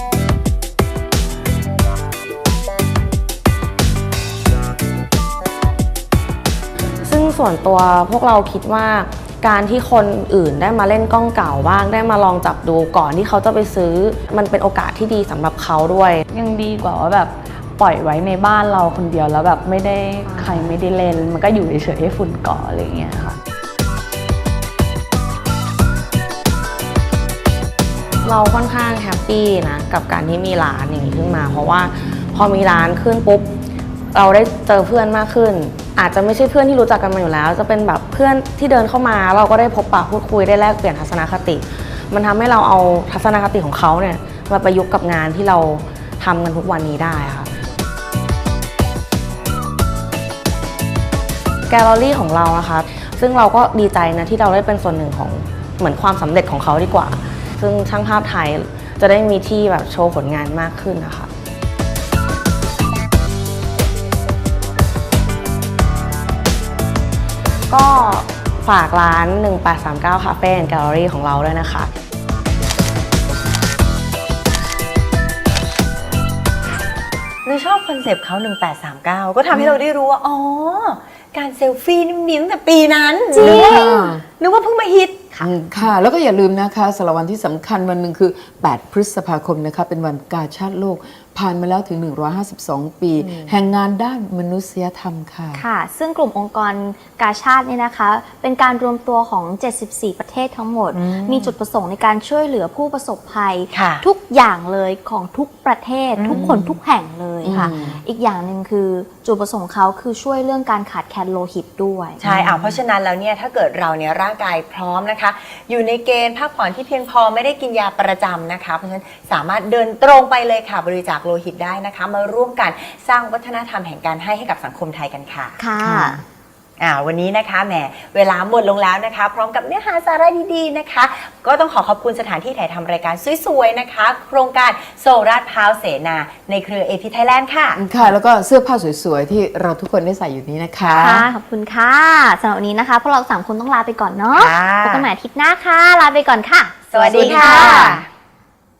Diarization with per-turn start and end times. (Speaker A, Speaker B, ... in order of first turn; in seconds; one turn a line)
Speaker A: 7.0-16.2
Speaker B: 16.3-23.4
Speaker A: 28.2-33.5
Speaker A: 34.1-47.5
Speaker A: 51.7-61.3
Speaker A: 67.7-71.9
Speaker C: 77.4-85.5
Speaker D: 83.3-84.2
Speaker E: 83.3-84.1
Speaker D: 85.4-95.6
Speaker E: 95.5-112.2
Speaker C: 100.9-101.5
Speaker C: 103.7-104.0
Speaker C: 106.2-106.4
Speaker D: 106.3-106.8
Speaker D: 107.4-108.0
Speaker C: 107.5-108.0
Speaker D: 112.2-112.8
Speaker C: 112.2-125.6
Speaker E: 125.6-126.2
Speaker D: 125.8-126.2
Speaker C: 126.8-137.8
Speaker D: 137.7-141.3
Speaker E: 140.9-148.0
Speaker C: 144.3-145.1
Speaker C: 146.9-148.1
Speaker D: 147.2-147.9